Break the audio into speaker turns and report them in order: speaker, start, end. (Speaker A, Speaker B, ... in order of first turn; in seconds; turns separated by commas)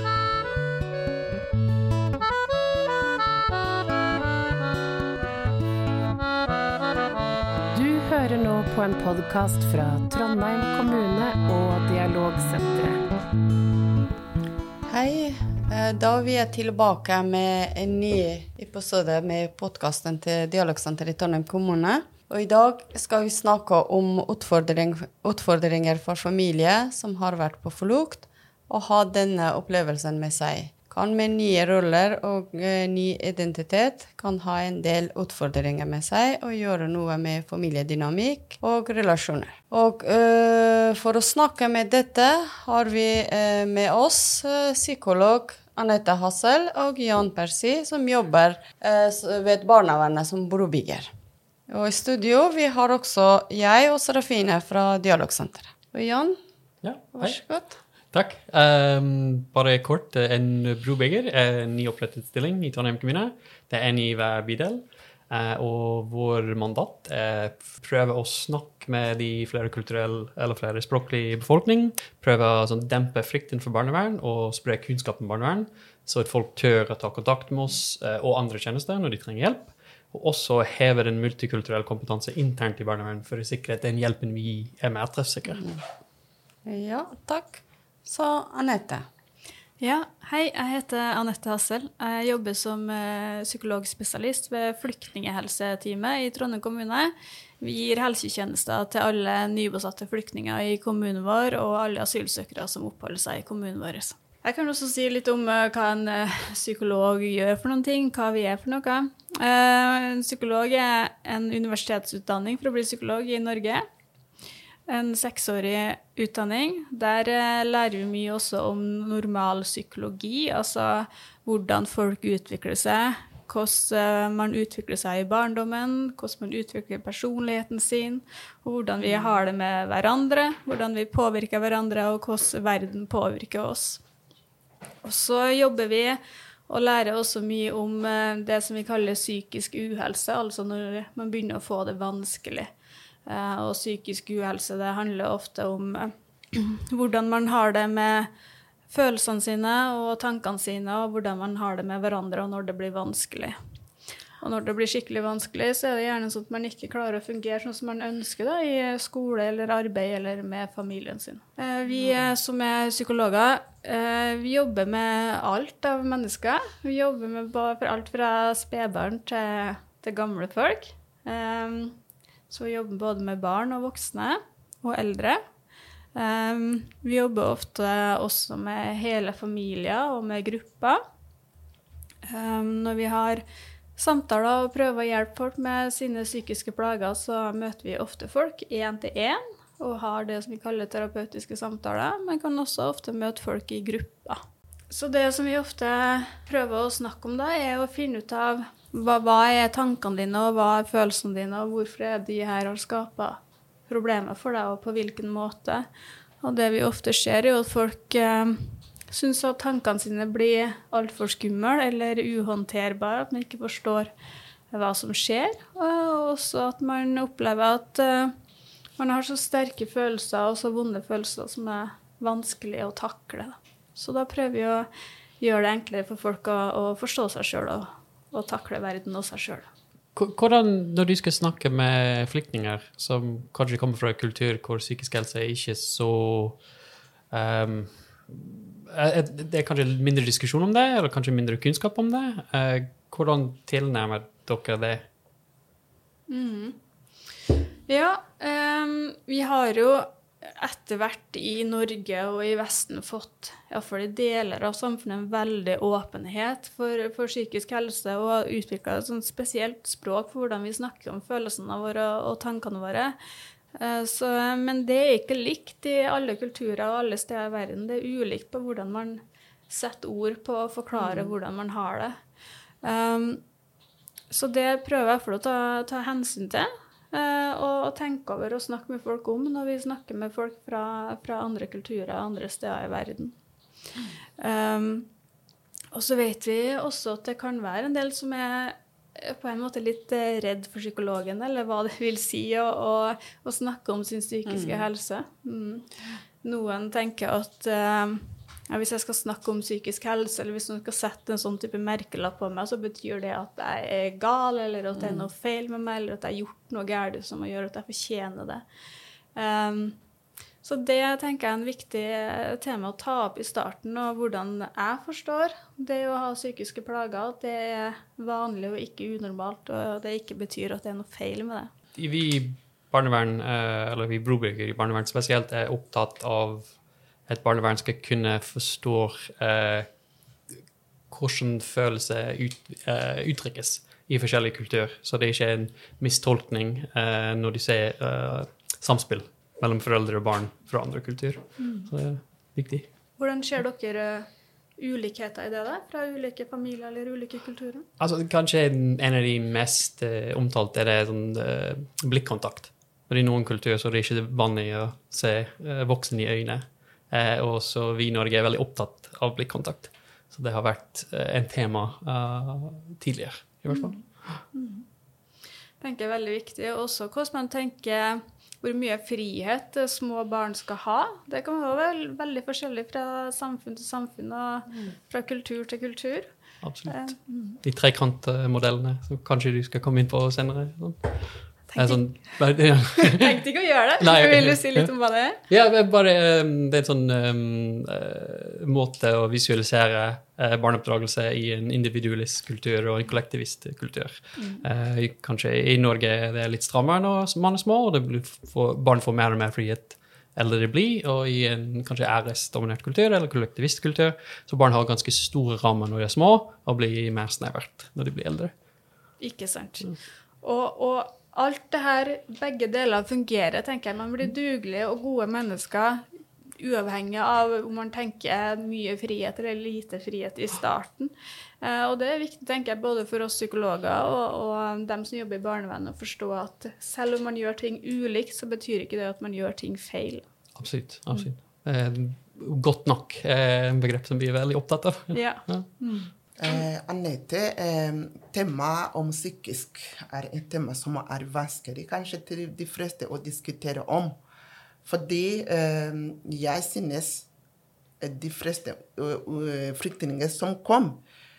Speaker A: 7.7-13.0, Speaker B: 14.9-51.1, Speaker B: 51.7-56.4, Speaker C: 56.8-85.8, Speaker B: 57.1-57.8, Speaker B: 86.6-89.0, Speaker D: 89.8-113.8, Speaker D: 114.9-134.0, Speaker B: 129.1-129.3, Speaker D: 135.0-142.7, Speaker D: 143.3-148.3, Speaker D: 148.9-153.6, Speaker D: 154.4-172.0, Speaker D: 172.5-175.4, Speaker D: 176.1-181.0, Speaker D: 182.2-183.4, Speaker D: 184.0-205.9, Speaker D: 206.4-214.1, Speaker D: 214.7-218.3, Speaker D: 219.0-224.9, Speaker D: 225.4-229.7, Speaker C: 230.2-236.6, Speaker C: 237.3-245.1, Speaker D: 246.3-246.8, Speaker D: 247.9-263.1, Speaker D: 263.7-272.1, Speaker B: 270.9-271.3, Speaker D: 272.8-273.4, Speaker D: 274.3-283.3, Speaker D: 284.4-285.1, Speaker D: 285.9-295.9, Speaker B: 294.4-294.9, Speaker D: 296.4-308.6, Speaker B: 305.0-305.3, Speaker D: 309.3-310.0, Speaker D: 310.6-321.7, Speaker C: 321.9-329.9, Speaker C: 331.1-342.9, Speaker D: 341.6-341.9, Speaker D: 343.2-347.9, Speaker C: 348.0-364.4, Speaker D: 363.7-364.8, Speaker D: 365.8-377.6, Speaker C: 376.6-408.5, Speaker D: 381.7-385.4, Speaker D: 394.4-394.6, Speaker D: 409.2-416.0, Speaker D: 416.6-430.2, Speaker C: 430.5-435.7, Speaker D: 435.1-436.6, Speaker E: 436.4-444.1, Speaker E: 444.8-447.3, Speaker E: 448.0-451.0